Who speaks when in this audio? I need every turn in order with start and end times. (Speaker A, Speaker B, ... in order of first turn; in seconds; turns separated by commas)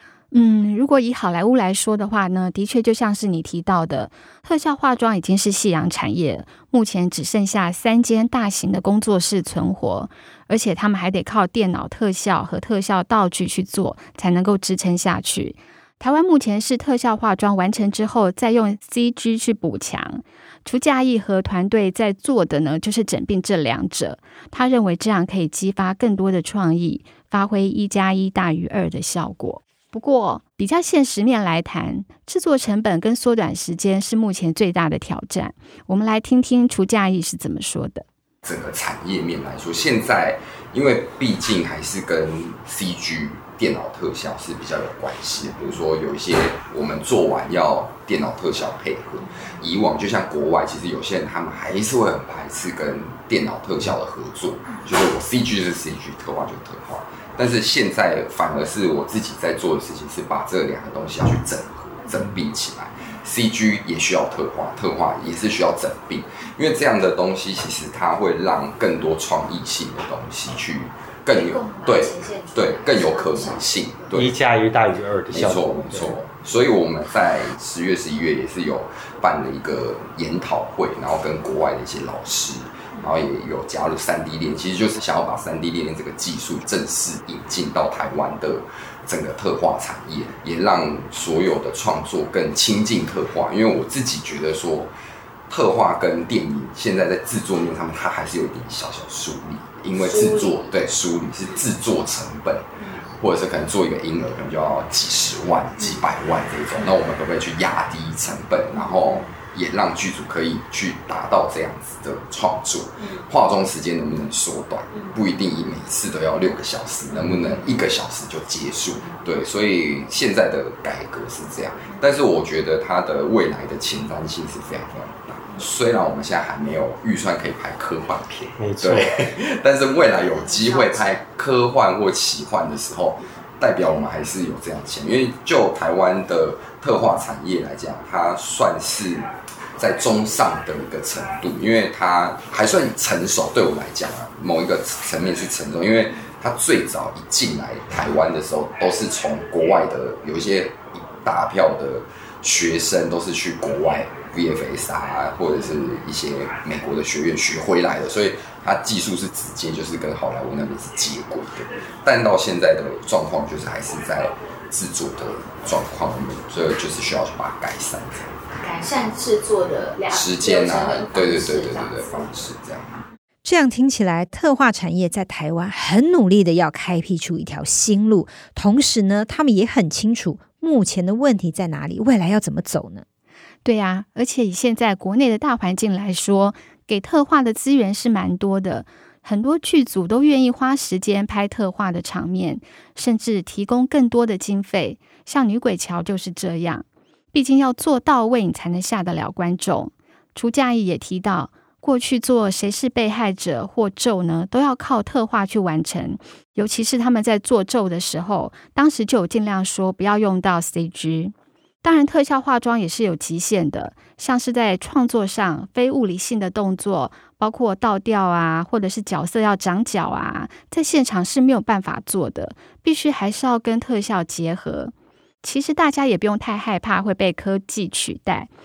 Speaker A: 0.3-38.0, Speaker B: 38.4-74.3, Speaker C: 71.3-73.9, Speaker D: 74.1-76.2, Speaker B: 75.3-94.9, Speaker B: 95.5-168.4, Speaker C: 100.1-100.7, Speaker D: 128.6-129.3, Speaker C: 130.5-131.1, Speaker C: 168.6-172.1, Speaker B: 170.1-173.0, Speaker E: 173.4-183.0, Speaker A: 183.6-228.5